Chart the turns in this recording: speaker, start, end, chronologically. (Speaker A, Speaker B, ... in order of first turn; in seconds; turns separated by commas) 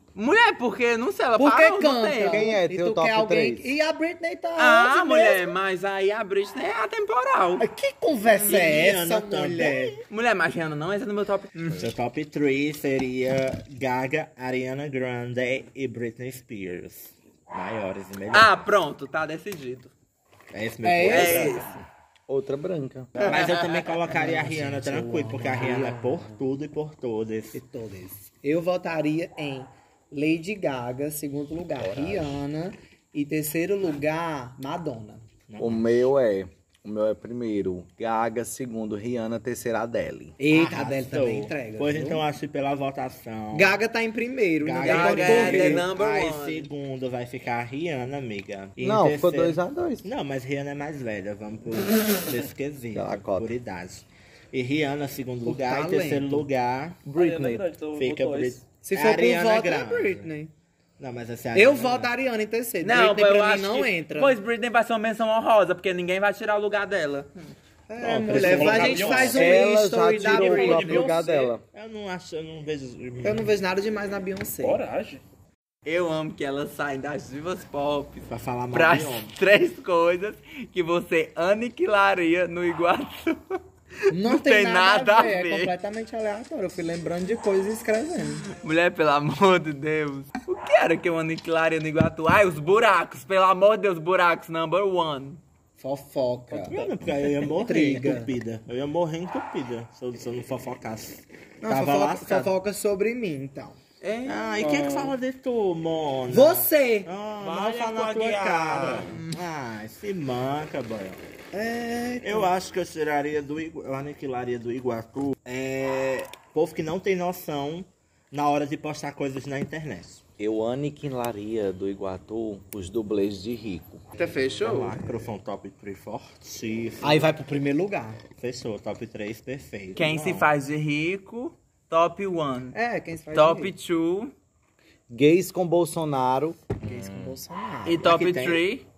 Speaker A: 0.1-2.5, Speaker B: 1.4-5.5, Speaker C: 2.2-3.7, Speaker A: 4.6-7.6, Speaker B: 7.6-10.0, Speaker A: 8.3-8.8, Speaker D: 8.4-10.0, Speaker A: 10.1-11.9, Speaker D: 11.7-18.5, Speaker A: 18.3-19.9, Speaker D: 20.5-21.7, Speaker B: 20.8-21.8, Speaker A: 21.0-21.7, Speaker C: 22.3-23.1, Speaker B: 23.1-23.4, Speaker A: 23.2-23.8, Speaker D: 23.2-27.6, Speaker B: 24.0-26.4, Speaker B: 27.5-35.2, Speaker E: 31.8-32.4, Speaker D: 35.5-36.0, Speaker C: 35.6-40.4, Speaker B: 40.4-42.2, Speaker D: 40.5-43.8, Speaker B: 43.5-45.9, Speaker D: 44.6-57.0, Speaker A: 44.8-46.7, Speaker C: 48.8-50.1, Speaker C: 52.9-53.5, Speaker B: 55.4-56.5, Speaker C: 57.0-57.7, Speaker E: 57.1-58.6, Speaker D: 57.9-60.3, Speaker B: 58.8-60.5, Speaker D: 61.0-62.1, Speaker B: 61.5-64.4, Speaker A: 62.8-67.5, Speaker B: 67.9-71.2, Speaker D: 68.0-69.6, Speaker E: 68.3-69.4, Speaker C: 69.0-71.6, Speaker D: 70.2-73.5, Speaker E: 70.6-71.5, Speaker B: 73.2-74.8, Speaker E: 74.6-75.2, Speaker A: 75.8-83.6, Speaker D: 78.3-79.3, Speaker B: 84.1-88.5, Speaker A: 84.1-85.7, Speaker A: 88.5-95.4, Speaker B: 95.8-96.8, Speaker E: 96.5-97.1, Speaker D: 96.7-102.5, Speaker B: 97.5-98.3, Speaker B: 101.6-103.8, Speaker A: 104.0-104.6, Speaker D: 104.2-111.2, Speaker E: 104.6-105.2, Speaker B: 106.3-107.1, Speaker A: 107.4-109.4, Speaker B: 111.5-112.5, Speaker D: 112.2-120.2, Speaker C: 120.4-124.0, Speaker A: 124.2-125.0, Speaker D: 124.6-127.3, Speaker B: 127.0-128.2, Speaker D: 128.3-130.5, Speaker A: 129.9-132.8, Speaker B: 132.7-133.7, Speaker A: 133.3-134.3, Speaker C: 135.1-136.7, Speaker B: 136.8-138.2, Speaker A: 137.8-138.8, Speaker D: 138.0-138.6